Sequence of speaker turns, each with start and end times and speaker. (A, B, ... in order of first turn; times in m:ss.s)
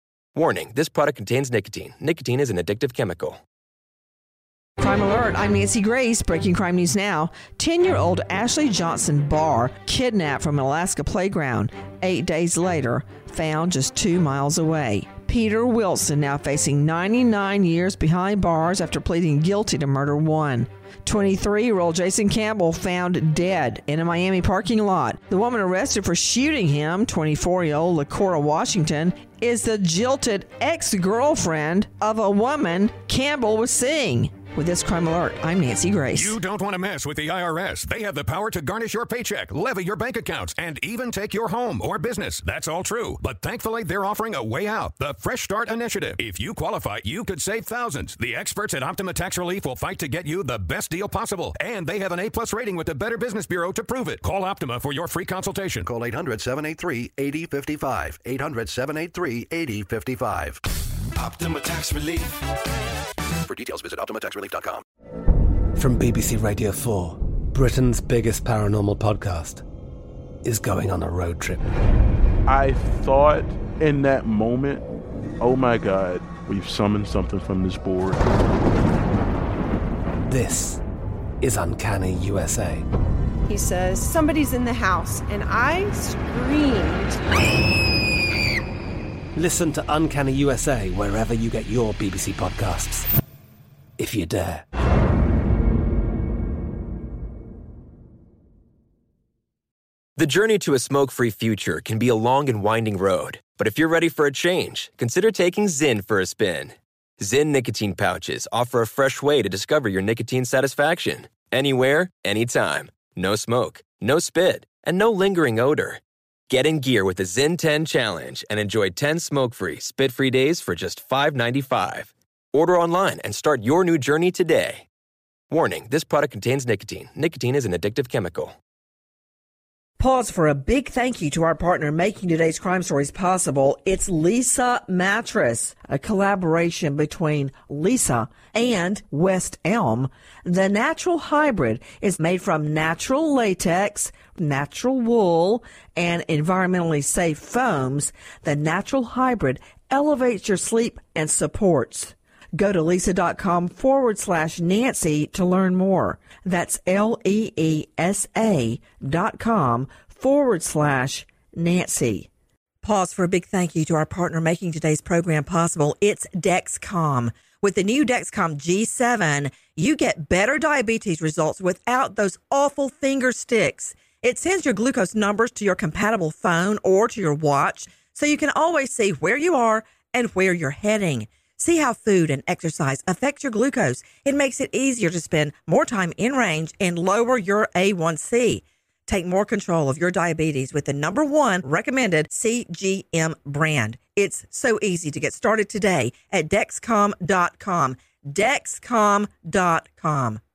0:00.3-0:03.4 A
0:04.8-0:36.3 B
0:36.1-0:55.9 C
0:55.8-1:00.6 D
1:01.2-1:02.2 E
1:03.5-1:04.8 D
1:05.8-1:09.6 E
1:10.4-1:11.7 E
1:12.5-1:14.8 F
1:15.4-1:18.2 F
1:20.3-1:20.8 E
1:21.4-1:22.8 E
1:23.5-1:27.2 G
1:29.4-1:33.1 E
1:34.0-1:34.6 E
1:40.2-2:04.8 A
2:05.5-2:08.5 A
2:10.0-2:42.3 B
2:42.8-3:20.4 B